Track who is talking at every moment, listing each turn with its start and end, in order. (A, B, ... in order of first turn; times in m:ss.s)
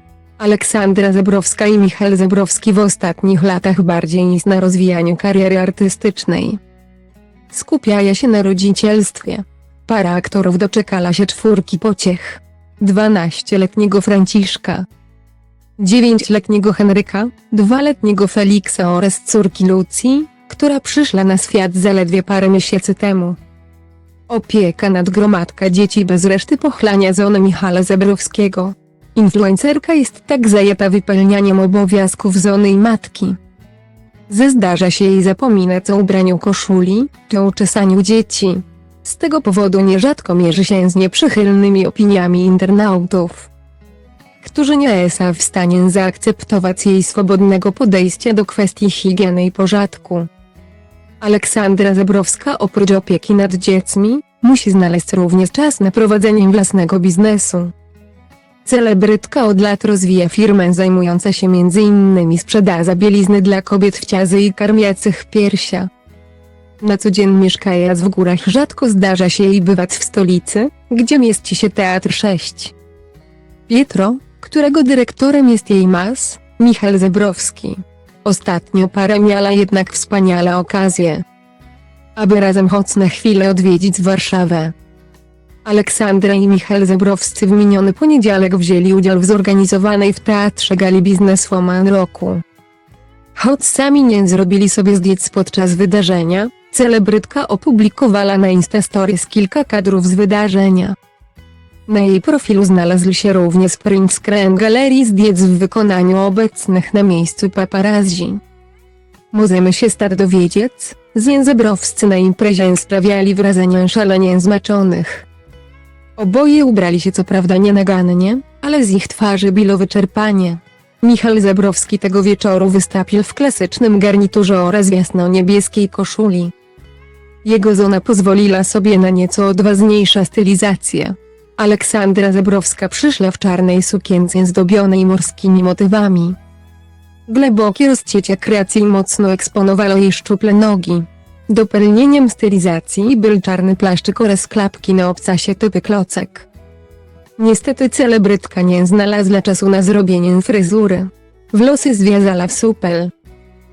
0:00.4-0:06.6 A
0:07.5-0:14.9 A
0:15.8-0:23.4 A
0:24.3-0:33.4 A
0:34.3-0:43.5 A
0:44.4-0:50.3 A
0:51.2-0:57.7 A
0:58.6-1:05.9 A
1:06.8-1:12.7 A
1:13.7-1:21.2 A
1:22.1-1:24.7 A
1:25.6-1:32.4 A
1:33.4-1:41.0 A
1:41.9-1:48.4 A
1:49.3-1:55.2 A
1:56.2-2:06.5 A
2:07.4-2:16.4 A
2:17.3-2:26.5 A
2:27.4-2:33.1 A